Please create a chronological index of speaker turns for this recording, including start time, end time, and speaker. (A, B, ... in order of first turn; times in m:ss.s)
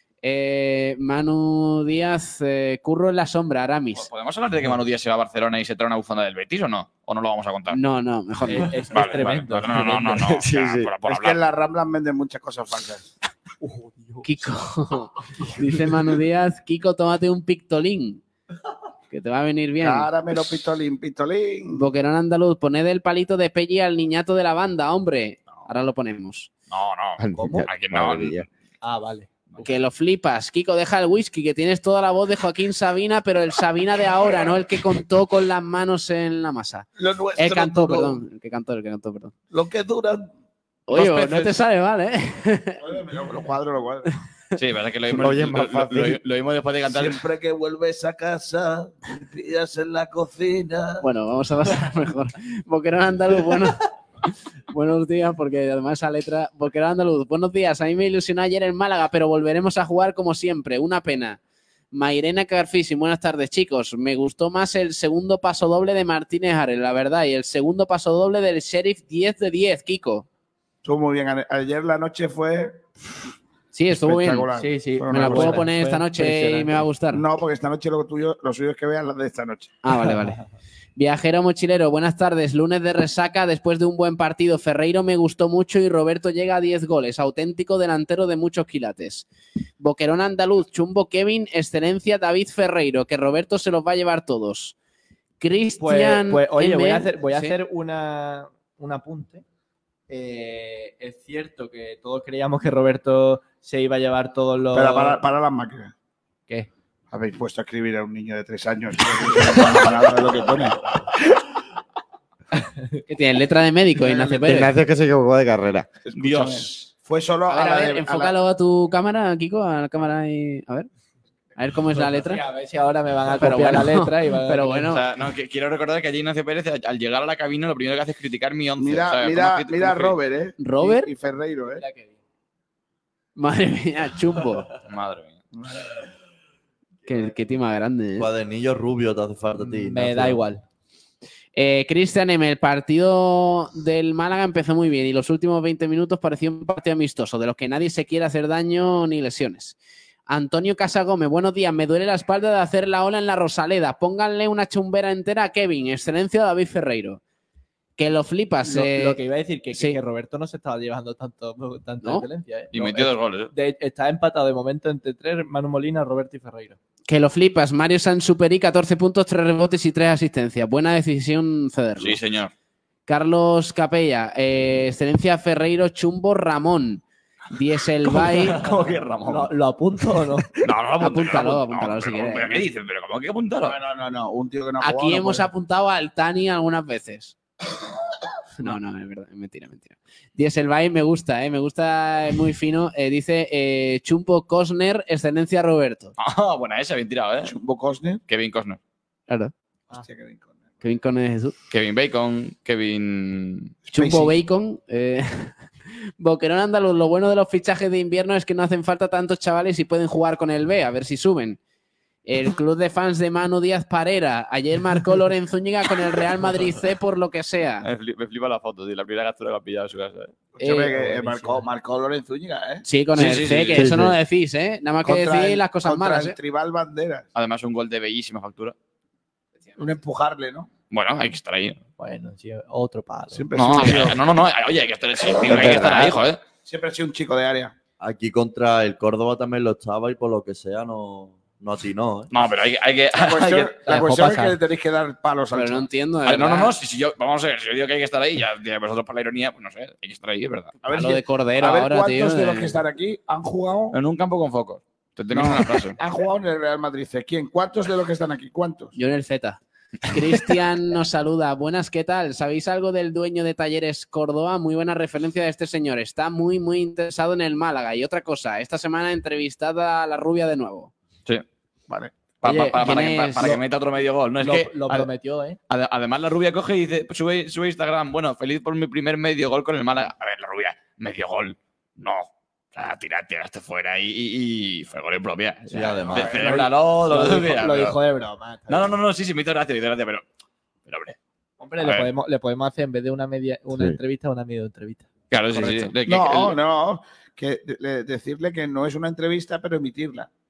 0:00.2-0:04.1 A
0:04.0-0:07.8 B
0:07.7-0:08.8 A
0:08.5-0:10.4 C
0:08.9-0:11.4 B
0:10.4-0:10.9 D
0:11.0-0:13.1 E
0:13.6-0:14.5 C
0:14.2-0:18.2 A
0:19.1-0:20.1 A
0:19.8-0:21.8 E
0:21.7-0:26.5 A
0:26.7-0:28.5 B
0:27.2-0:28.5 D
0:27.4-0:27.7 C
0:28.8-0:29.7 C
0:29.6-0:39.3 A
0:37.0-0:38.2 E
0:39.5-0:40.3 E
0:40.9-0:42.8 A
0:40.9-0:41.2 E
0:42.8-0:44.1 E
0:44.6-0:47.2 B
0:45.1-0:46.2 D
0:46.9-0:51.0 E
0:51.0-0:53.8 A
0:54.7-1:01.4 A
1:01.9-1:10.3 A
1:10.8-1:12.8 E
1:13.7-1:14.5 A
1:13.9-1:15.7 E
1:14.5-1:16.9 C
1:15.1-1:17.2 A
1:17.1-1:19.8 E
1:19.8-1:20.4 A
1:21.0-1:29.2 A
1:29.8-1:34.8 A
1:35.4-1:37.6 A
1:35.8-1:39.4 C
1:40.1-1:45.2 C
1:44.7-1:45.9 E
1:47.1-1:50.8 E
1:52.6-1:53.0 C
1:53.1-1:54.7 A
1:54.0-1:54.6 C
1:54.4-1:55.9 D
1:56.1-1:56.8 B
1:56.1-1:58.4 E
1:57.5-2:00.9 A
2:01.6-2:02.4 A
2:02.0-2:04.9 C
2:03.4-2:05.0 A
2:04.9-2:10.2 B
2:08.8-2:11.8 E
2:10.6-2:11.1 A
2:11.8-2:12.2 C
2:13.4-2:14.7 A
2:14.9-2:15.4 B
2:15.6-2:15.9 E
2:17.1-2:18.3 A
2:18.2-2:20.4 F
2:19.6-2:20.6 C
2:21.6-2:29.8 A
2:30.3-2:37.2 A
2:38.0-2:39.2 A
2:38.6-2:46.8 C
2:42.7-2:43.5 B
2:47.1-2:52.2 A
2:52.0-2:52.5 B
2:53.1-2:57.0 A
2:57.5-2:58.6 A
2:58.0-2:59.5 B
2:58.6-3:00.5 C
3:00.6-3:03.8 B
3:01.0-3:02.6 A
3:03.6-3:05.5 E
3:04.8-3:07.4 A
3:08.6-3:16.2 A
3:16.2-3:17.5 B
3:17.4-3:18.2 E
3:18.3-3:18.8 B
3:20.0-3:20.7 E
3:20.8-3:21.6 A
3:21.7-3:23.8 B
3:23.9-3:24.3 E
3:23.9-3:25.6 A
3:26.2-3:31.6 A
3:32.3-3:37.9 A
3:37.8-3:40.3 B
3:40.6-3:42.8 E
3:40.6-3:40.9 A
3:40.8-3:41.7 C
3:42.8-3:46.4 A
3:43.2-3:43.9 B
3:43.8-3:44.2 D
3:45.0-3:47.3 E
3:47.4-3:48.8 B
3:49.8-3:50.7 E
3:50.9-3:51.8 B
3:52.0-3:53.5 C
3:53.3-3:54.2 E
3:53.6-3:56.4 B
3:55.4-3:56.2 D
3:56.6-3:57.7 E
3:58.0-4:02.3 F
4:02.3-4:04.0 B
4:03.2-4:05.9 E
4:03.9-4:04.6 C
4:05.5-4:06.7 A
4:06.3-4:10.8 B
4:10.8-4:14.0 E
4:10.9-4:12.8 A
4:13.9-4:16.0 B
4:15.3-4:19.0 E
4:19.0-4:30.9 A
4:32.4-4:35.1 B
4:32.4-4:33.6 C
4:32.5-4:33.6 A
4:34.4-4:35.6 C
4:35.7-4:48.0 B
4:45.7-4:46.5 F
4:45.8-4:49.0 C
4:48.7-4:50.2 B
4:50.9-4:51.2 B
4:51.6-4:55.1 C
4:51.8-4:52.1 B
4:53.7-4:54.0 D
4:55.3-4:56.6 B
4:56.0-5:00.3 E